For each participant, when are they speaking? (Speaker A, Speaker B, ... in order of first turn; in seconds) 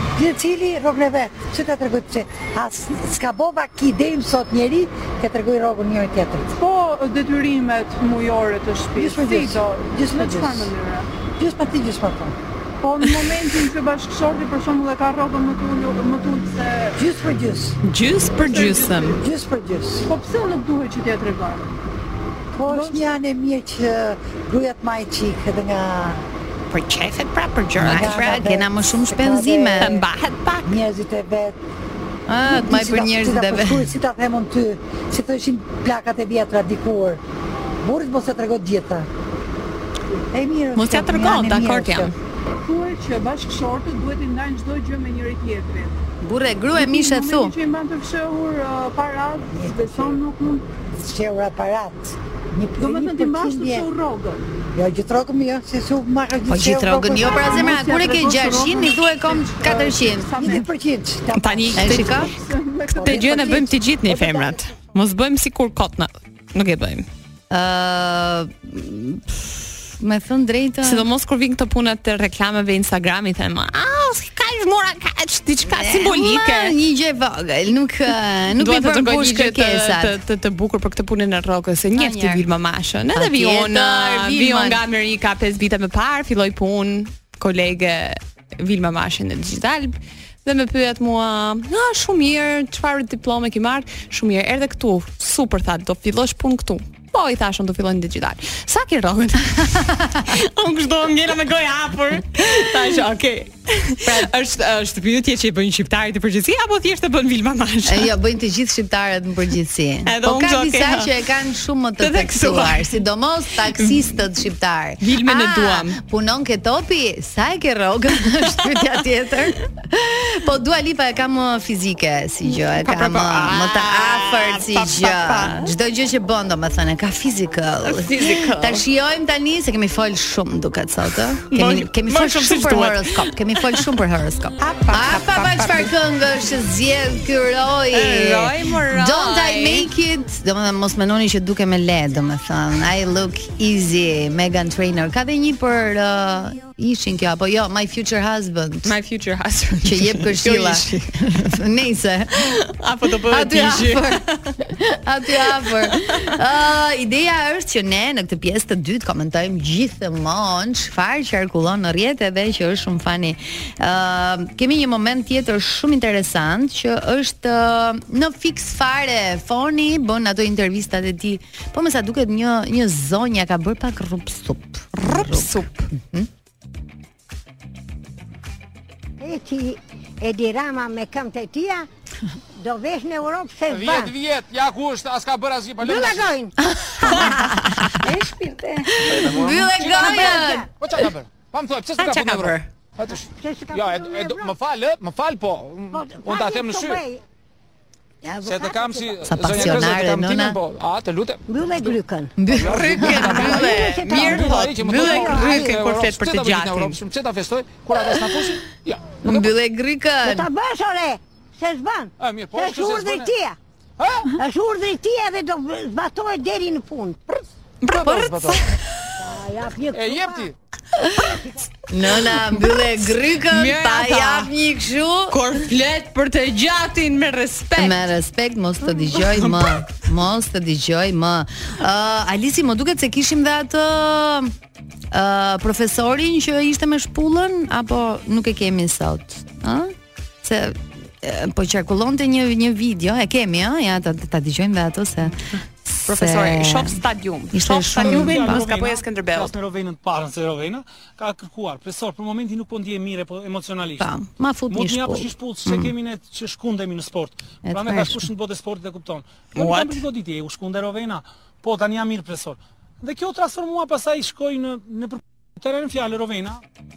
Speaker A: 0.2-6.5, 8.9-10.7, 11.4-12.3, 17.0-17.8, 19.2-20.1, 22.5-26.2, 27.8-30.0, 30.6-31.6, 32.4-37.2, 37.8-39.1, 40.3-42.1, 49.5-50.2, 51.0-53.9, 54.7-57.8, 60.3-62.2, 62.9-64.5
Speaker B: 6.5-11.1, 12.8-17.0, 18.4-19.2, 20.1-21.6, 22.7-23.0, 42.6-46.0, 46.8-50.6, 52.8-54.4, 57.3-60.7, 62.3-64.3
Speaker C: 17.8-19.2, 26.7-28.5, 29.8-30.7, 40.8-42.1, 61.4-62.3, 62.9-67.1, 70.8-76.8, 78.6-108.1, 110.1-111.1, 112.0-113.0, 113.7-114.1, 115.0-116.0, 122.5-125.7, 127.8-128.8, 131.5-133.9, 134.6-135.9, 137.9-139.9, 148.8-151.6, 152.6-154.6, 155.4-156.3, 174.9-175.9, 192.0-192.7, 202.6-207.0, 222.3-222.8, 223.3-224.5, 225.3-228.0, 228.9-229.9, 246.1-249.5, 259.6-260.0
Speaker D: 28.0-29.9, 32.3-33.9, 46.2-47.5, 56.5-60.4, 61.8-62.3, 67.5-71.1, 75.6-80.2, 81.9-82.5, 83.1-84.8, 104.0-104.3, 107.9-148.9, 149.8-152.4, 153.3-176.3, 186.7-188.0, 189.0-190.7, 199.2-200.6, 202.4-203.5, 209.2-210.5, 217.9-218.7, 221.9-225.4, 227.8-234.5, 235.1-247.0, 247.5-248.7, 254.0-255.9, 257.7-258.3
Speaker E: 179.2-181.9, 182.6-184.1, 185.8-186.5, 188.0-190.7, 193.4-194.6, 195.9-197.2, 198.2-199.8, 201.5-205.8, 210.2-213.6, 214.4-217.4, 219.2-220.5
Speaker F: 183.7-186.3, 189.0-197.0, 198.4-201.9, 202.5-209.2, 212.2-213.3, 214.0-214.3, 217.8-218.6, 219.9-220.5
Speaker G: 248.0-254.1, 254.7-266.6